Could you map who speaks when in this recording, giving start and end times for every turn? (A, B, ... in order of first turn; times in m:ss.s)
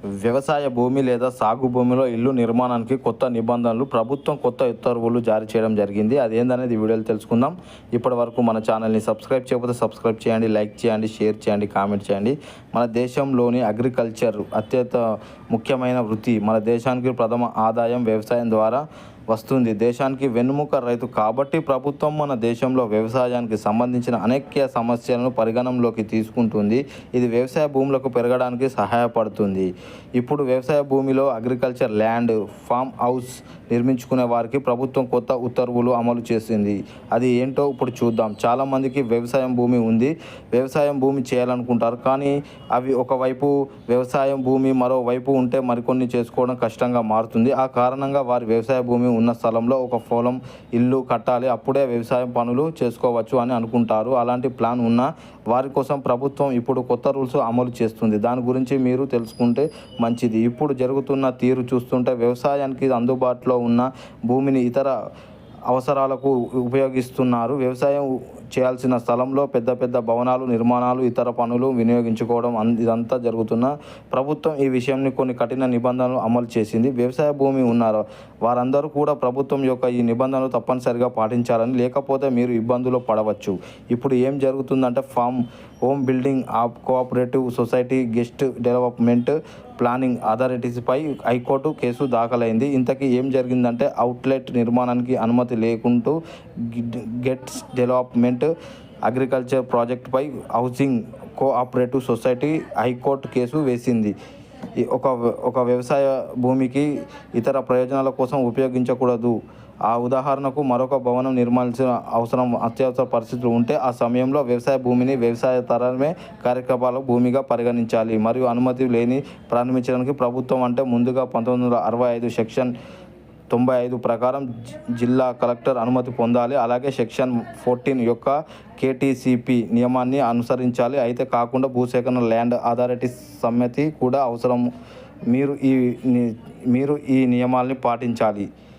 0:00.2-1:04.9 A
1:05.7-1:38.5 A
1:39.1-1:44.2 A
1:44.8-2:02.7 A
2:03.5-2:14.7 A
2:15.3-2:18.5 A